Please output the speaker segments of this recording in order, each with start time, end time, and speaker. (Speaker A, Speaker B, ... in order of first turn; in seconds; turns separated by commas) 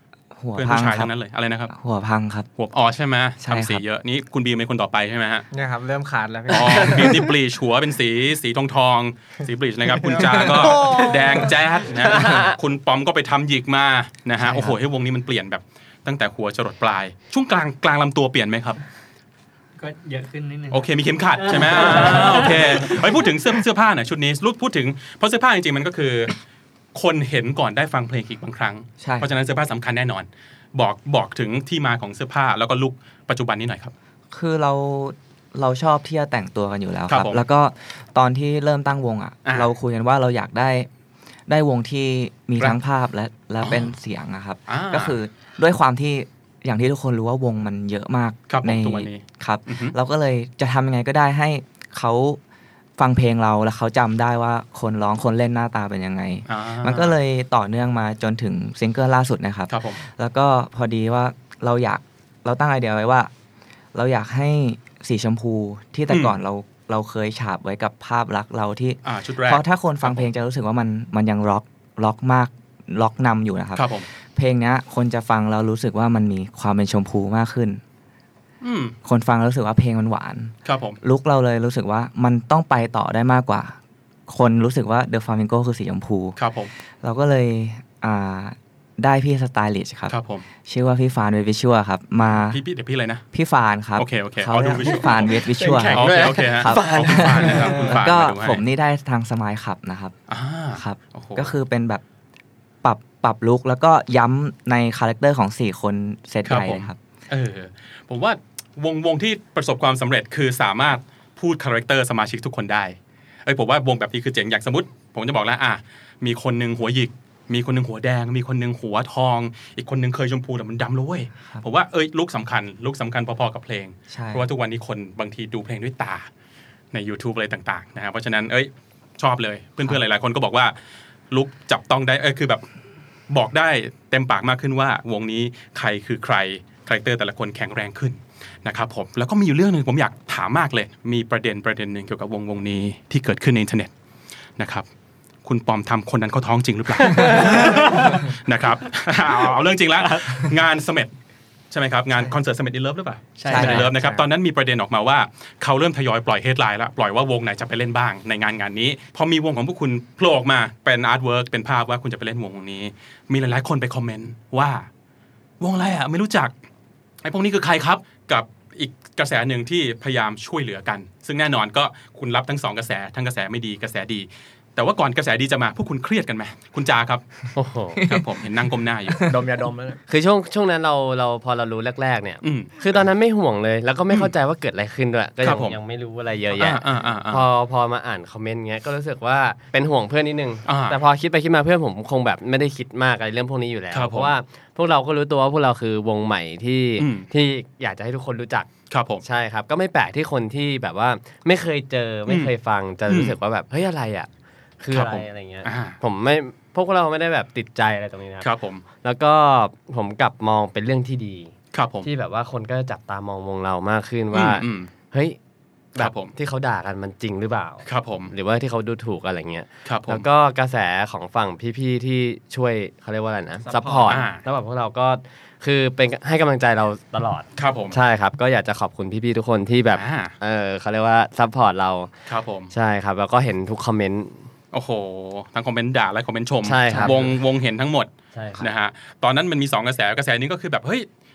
Speaker A: 0.3-1.1, Speaker B: 0.6-1.7, Speaker A: 1.7-2.5, Speaker B: 2.6-5.5, Speaker A: 3.4-3.8, Speaker C: 5.5-7.3, Speaker B: 6.5-18.8, Speaker C: 10.1-11.2, Speaker D: 12.2-12.5, Speaker A: 14.5-14.7, Speaker E: 19.8-20.8, Speaker B: 20.7-26.3, Speaker E: 21.4-23.1, Speaker B: 26.9-33.9, Speaker A: 29.0-29.3, Speaker A: 34.3-40.9, Speaker B: 37.1-37.4, Speaker A: 41.5-52.4, Speaker B: 43.6-43.9, Speaker B: 44.7-45.2, Speaker B: 48.5-50.0, Speaker A: 53.0-63.3, Speaker B: 56.5-57.1, Speaker B: 59.7-60.0, Speaker A: 63.9-77.8, Speaker B: 66.1-66.4, Speaker B: 69.0-70.3, Speaker B: 73.8-74.1, Speaker B: 78.6-79.0, Speaker A: 79.0-83.8, Speaker B: 80.7-81.0, Speaker A: 84.3-86.4, Speaker B: 86.4-86.7, Speaker A: 87.0-92.6, Speaker B: 90.1-90.4, Speaker B: 92.3-93.2, Speaker A: 93.3-100.2, Speaker B: 94.0-98.6, Speaker D: 95.5-98.0, Speaker B: 100.3-101.5, Speaker A: 100.7-102.0, Speaker A: 102.8-107.0, Speaker B: 106.5-126.3, Speaker A: 124.1-124.5, Speaker B: 126.9-130.7, Speaker B: 131.3-132.6, Speaker B: 133.3-143.9, Speaker B: 144.6-144.9, Speaker B: 145.4-151.1, Speaker B: 151.7-164.9, Speaker E: 153.4-153.9, Speaker A: 153.5-154.2, Speaker B: 165.6-166.5, Speaker B: 167.2-177.2, Speaker D: 177.6-178.0, Speaker B: 178.0-179.4, Speaker C: 179.3-180.0, Speaker D: 180.1-198.7, Speaker B: 182.4-182.7, Speaker B: 185.4-185.8, Speaker B: 186.5-187.5, Speaker B: 190.7-191.0, Speaker B: 193.9-194.3, Speaker B: 197.0-197.3, Speaker B: 198.9-199.2, Speaker D: 199.2-204.3, Speaker B: 202.3-202.5, Speaker B: 203.1-203.4, Speaker D: 204.8-208.5, Speaker B: 204.9-206.0, Speaker B: 208.4-208.8, Speaker D: 209.0-215.4, Speaker B: 211.7-212.1, Speaker B: 214.3-214.9, Speaker D: 215.9-232.1, Speaker B: 216.0-216.3, Speaker B: 217.9-218.3, Speaker B: 219.9-220.3, Speaker B: 223.8-224.4, Speaker B: 227.6-228.0, Speaker B: 229.9-230.3, Speaker B: 232.3-232.7, Speaker D: 232.7-234.4, Speaker B: 234.7-241.1, Speaker D: 236.6-237.4, Speaker D: 238.3-238.7